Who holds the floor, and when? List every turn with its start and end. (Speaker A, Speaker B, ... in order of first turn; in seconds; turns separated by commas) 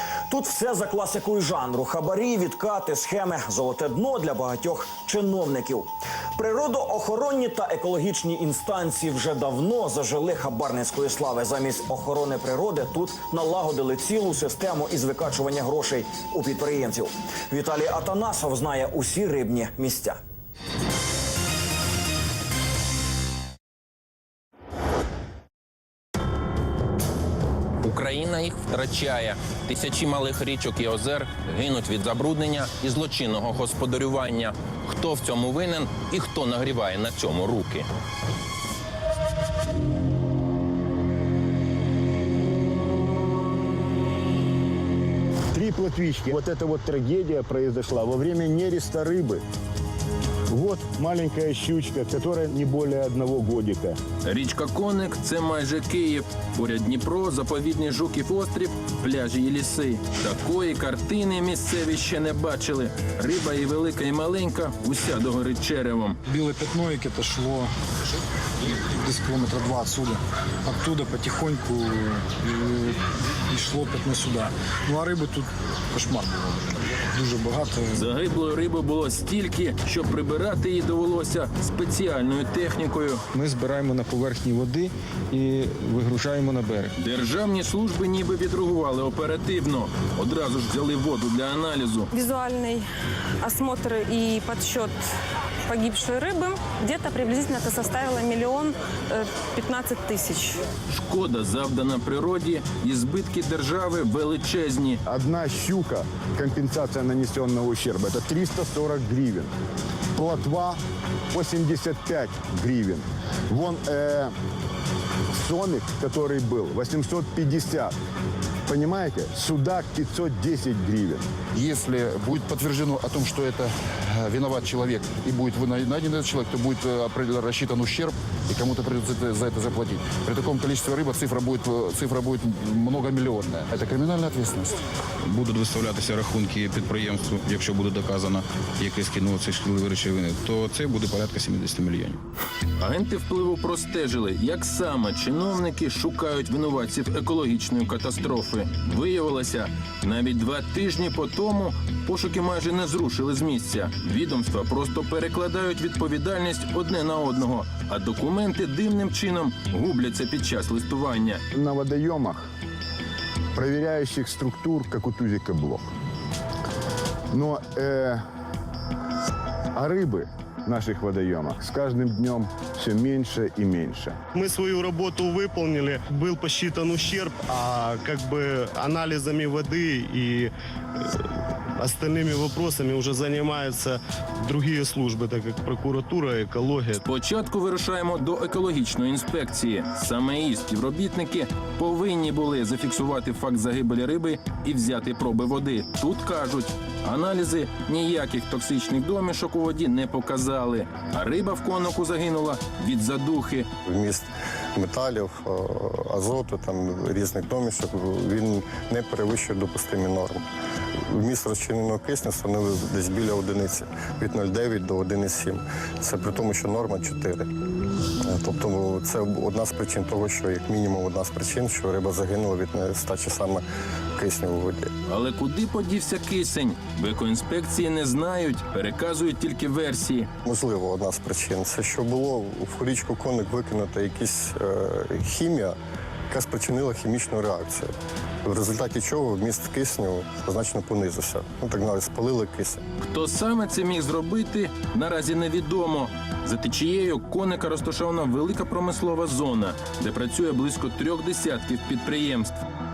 Speaker A: 0.3-20.2, Speaker B: 27.8-37.9, Speaker C: 45.5-49.4, Speaker C: 50.5-54.0, Speaker B: 54.2-66.2, Speaker D: 66.3-67.7, Speaker D: 68.9-73.0, Speaker D: 73.5-78.1, Speaker B: 77.9-83.2, Speaker E: 83.3-86.9, Speaker B: 87.0-92.1, Speaker F: 92.1-92.8, Speaker F: 93.4-94.9, Speaker F: 95.7-100.6, Speaker B: 100.9-105.0, Speaker C: 105.0-109.5, Speaker C: 110.1-110.8, Speaker C: 111.3-114.3, Speaker C: 115.3-117.9, Speaker C: 118.7-121.3, Speaker G: 121.5-134.7, Speaker H: 135.2-142.2, Speaker B: 142.8-161.4, Speaker C: 161.5-162.5, Speaker C: 163.5-165.9, Speaker C: 167.3-168.2, Speaker C: 169.7-174.2, Speaker I: 174.3-180.5, Speaker I: 181.8-187.0, Speaker B: 187.0-203.7, Speaker J: 203.8-210.4, Speaker J: 211.1-217.5, Speaker J: 218.2-223.6, Speaker J: 224.2-224.9, Speaker B: 225.1-230.3, Speaker J: 230.4-235.8, Speaker J: 236.3-237.9, Speaker J: 238.4-242.8, Speaker B: 243.0-252.6